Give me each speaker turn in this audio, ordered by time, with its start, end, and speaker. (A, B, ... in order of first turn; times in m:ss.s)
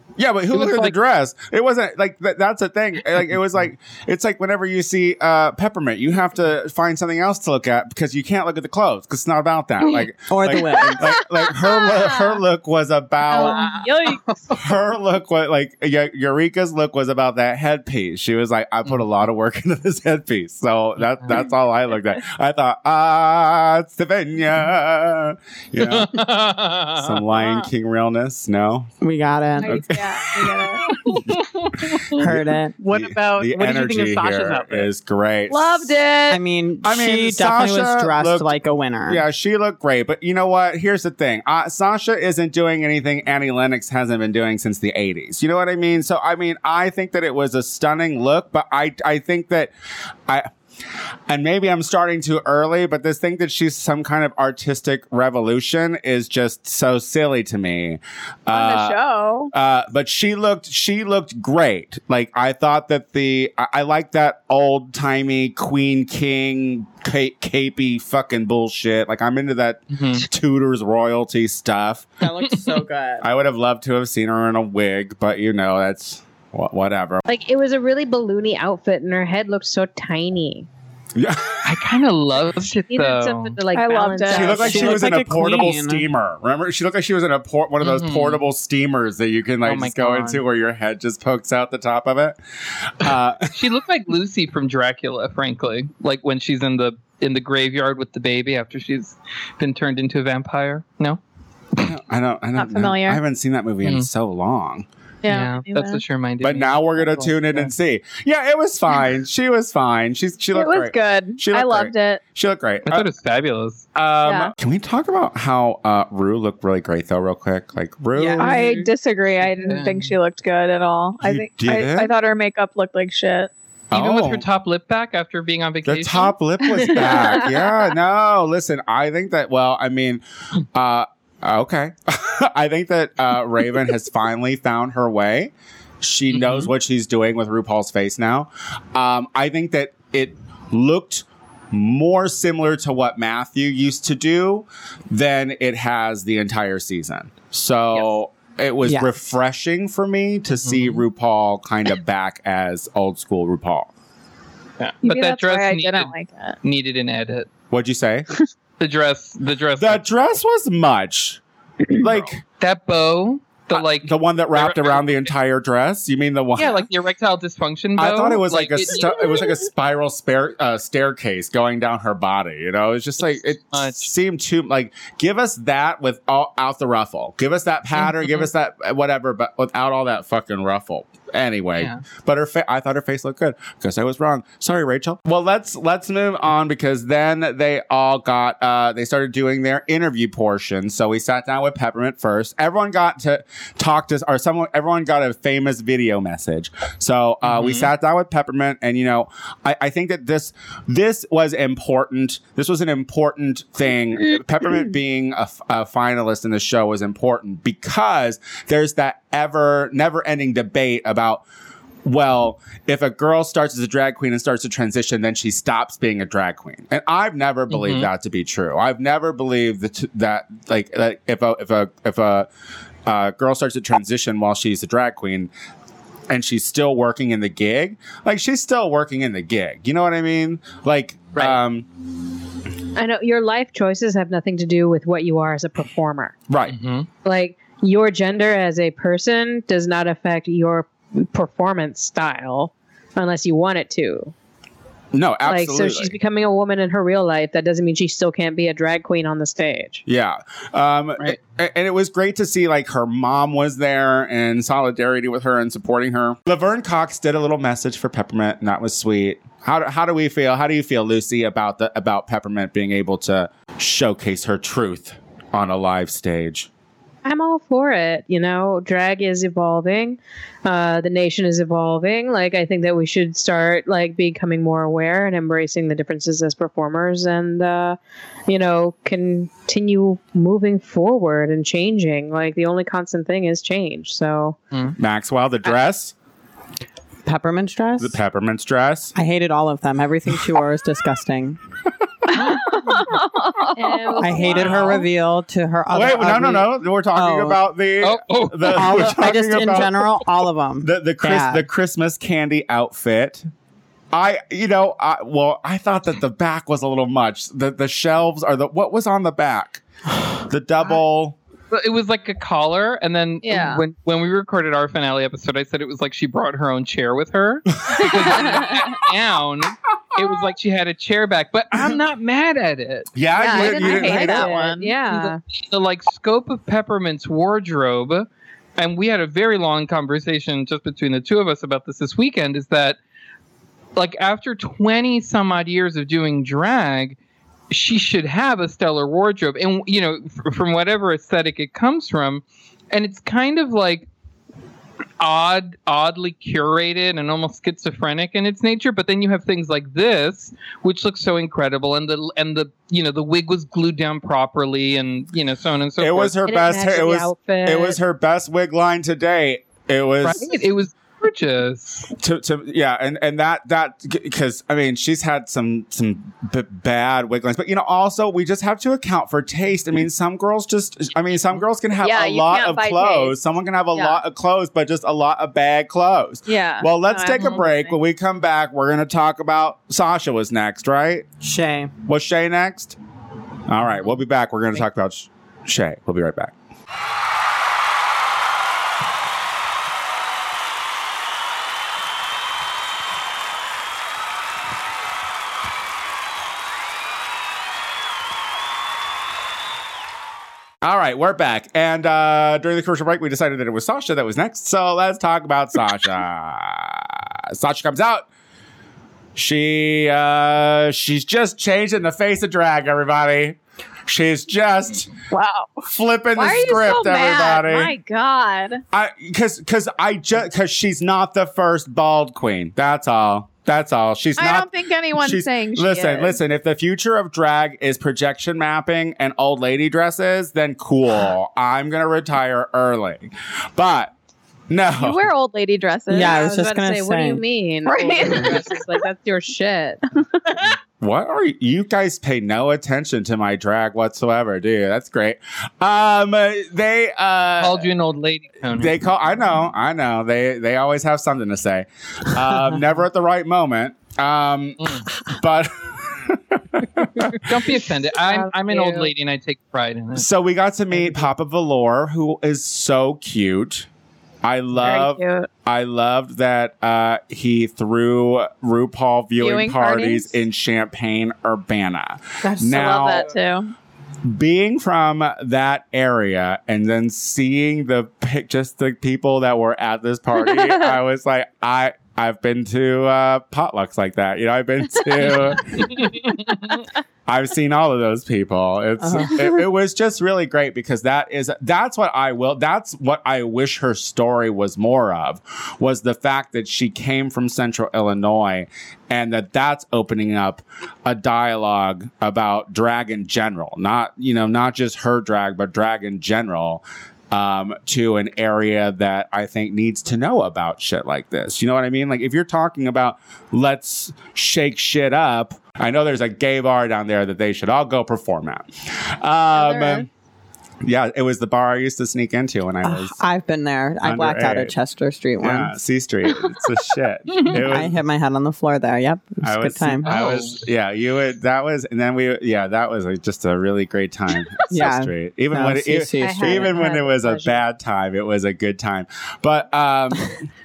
0:00.2-0:13.6 A
0:00.5-0:00.9 B
0:10.3-0:11.1 C
0:11.6-0:12.4 D
0:13.3-0:14.2 D
0:13.6-0:13.9 E
0:13.7-0:14.2 F
0:14.6-0:26.1 A
0:25.8-0:27.3 B
0:27.0-0:28.9 A
0:29.0-0:29.8 C
0:29.6-0:30.9 D
0:29.7-0:30.6 A
0:30.9-0:32.2 B
0:32.2-0:32.8 C
0:32.8-0:34.9 E
0:32.9-0:35.9 A
0:35.5-0:36.4 D
0:36.3-0:39.2 C
0:36.8-0:38.5 A
0:39.1-0:49.7 A
0:51.3-0:59.0 A
0:58.5-0:59.5 D
0:59.5-1:12.1 A
1:09.9-1:10.2 B
1:12.2-1:13.2 C
1:13.2-1:17.2 A
1:17.3-1:20.7 F
1:21.2-1:21.6 A
1:21.6-1:23.6 B
1:22.9-1:25.0 F
1:23.7-1:24.9 D
1:24.3-1:32.4 A
1:24.6-1:26.0 C
1:27.8-1:28.4 B
1:29.6-1:30.4 B
1:33.0-1:33.4 A
1:33.5-1:41.2 B
1:41.8-1:44.8 A
1:42.6-1:43.2 D
1:43.8-1:44.1 B
1:45.2-1:46.0 D
1:45.3-1:47.7 B
1:46.4-1:53.0 A
1:50.5-1:52.2 D
1:52.9-1:54.0 B
1:54.2-1:54.5 D
1:54.6-1:58.5 A
1:58.2-1:58.4 C
1:58.4-1:58.8 B
1:58.4-2:03.5 D
1:59.7-2:00.2 B
2:01.2-2:02.1 A
2:03.9-2:04.4 A
2:03.9-2:07.5 B
2:05.9-2:10.2 A
2:10.8-2:11.9 A
2:12.5-2:15.5 A
2:16.0-2:33.9 A
2:16.3-2:16.7 B
2:30.6-2:31.0 B
2:34.8-2:37.5 B
2:35.0-2:36.6 D
2:37.7-2:38.3 A
2:38.8-2:40.0 B
2:39.8-2:41.4 A
2:41.9-2:42.4 A
2:42.6-2:45.3 B
2:43.8-2:46.8 A
2:46.6-2:49.4 B
2:48.0-3:31.4 A
2:53.2-2:54.1 B
2:58.0-2:58.5 B
3:01.8-3:02.0 B
3:17.4-3:17.9 B
3:32.0-3:42.5 A
3:37.7-3:38.1 B
3:43.1-3:45.5 A
3:46.3-3:51.9 A
3:53.0-3:56.3 F
3:56.5-3:56.8 A
3:56.7-3:57.1 B
3:57.2-4:04.3 F
4:05.1-4:06.1 A
4:05.4-4:10.0 F
4:10.1-4:26.7 A
4:27.2-4:44.6 F
4:45.0-4:46.1 A
4:47.2-4:48.2 C
4:48.0-4:49.1 A
4:49.2-4:51.6 C
4:52.3-4:54.5 D
4:52.3-4:53.2 B
4:53.8-4:55.0 F
4:54.2-4:57.6 C
4:54.4-4:55.0 B
4:55.9-5:00.0 A
4:58.0-4:59.9 B
4:58.8-5:01.6 C
5:00.8-5:03.4 A
5:04.1-5:09.8 A
5:10.5-5:11.4 A
5:11.7-5:23.1 B
5:13.4-5:13.8 D
5:18.0-5:18.8 D
5:23.1-5:24.5 A
5:23.4-5:25.0 D
5:23.6-5:25.4 F
5:25.1-5:33.0 B
5:34.0-5:37.2 B
5:37.7-5:44.1 B
5:45.2-5:56.4 B
5:56.0-6:00.5 A
5:56.5-5:58.0 F
6:00.2-6:02.1 B
6:02.2-6:21.2 A
6:12.0-6:13.3 D
6:13.9-6:14.2 D
6:16.5-6:17.9 D
6:21.4-6:21.9 C
6:22.1-6:23.0 A
6:23.7-6:26.5 A
6:40.8-6:46.8 A
6:47.6-6:48.3 A
6:49.4-6:53.6 A
6:54.1-6:55.1 A
6:55.3-6:55.8 D
6:55.9-6:57.9 A
6:56.4-6:58.8 D
6:58.9-7:04.7 A
7:04.4-7:06.4 D
7:05.2-7:13.2 A
7:13.8-7:14.1 A
7:14.7-7:15.2 A
7:15.0-7:16.4 D
7:16.1-7:17.4 C
7:16.2-7:20.0 F
7:17.8-7:18.9 D
7:21.0-7:27.8 A
7:27.6-7:29.0 B
7:28.8-7:34.8 A
7:35.3-7:35.7 A
7:36.8-7:37.4 A
7:37.2-7:40.3 B
7:38.3-7:39.1 F
7:40.2-7:43.9 A
7:44.4-7:53.3 A
7:44.8-7:45.5 D
7:49.4-7:50.3 D
7:52.4-7:53.7 D
7:54.3-8:05.9 A
8:00.4-8:01.0 D
8:05.8-8:06.8 B
8:07.3-8:26.8 A
8:09.0-8:09.5 C
8:27.3-8:38.7 A
8:39.2-8:40.1 A
8:39.6-8:40.1 D
8:40.8-8:43.2 A
8:42.8-8:45.7 C
8:44.0-8:44.7 A
8:45.4-8:47.9 A
8:47.7-8:50.2 C
8:49.4-9:00.3 A
8:50.0-8:50.7 B
8:54.7-8:56.8 C
8:56.2-8:57.6 F